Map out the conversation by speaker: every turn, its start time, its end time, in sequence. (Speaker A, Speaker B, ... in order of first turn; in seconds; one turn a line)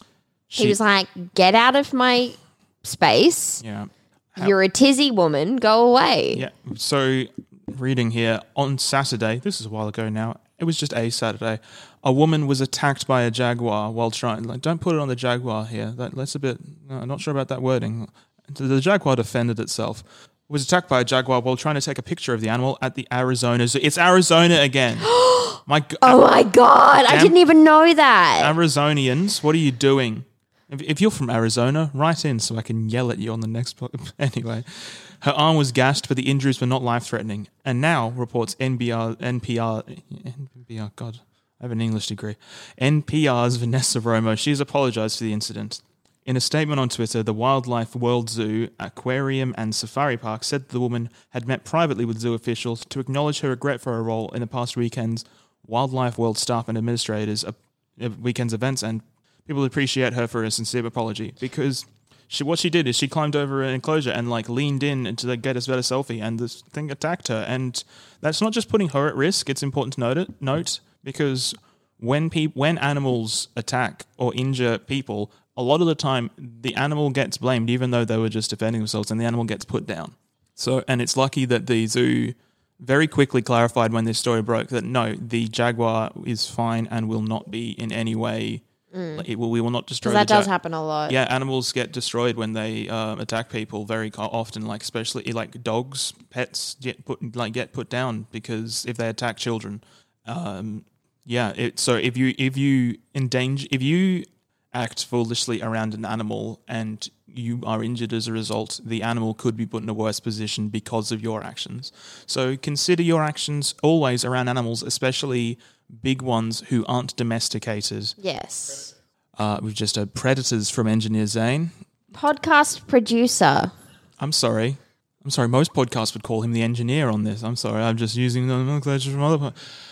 Speaker A: 0.5-0.8
Speaker B: 0.5-3.6
Speaker A: 3.6-4.5
Speaker B: 4.4-6.4
Speaker A: 6.3-25.1
Speaker B: 25.0-28.5
Speaker A: 25.6-26.2
Speaker A: 27.1-27.4
Speaker A: 28.4-88.6
Speaker B: 88.9-89.2
Speaker A: 89.2-90.5
Speaker B: 90.0-91.2
Speaker A: 91.1-118.2
Speaker B: 118.2-118.9
Speaker A: 119.4-121.7
Speaker B: 122.1-123.7
Speaker A: 124.2-129.6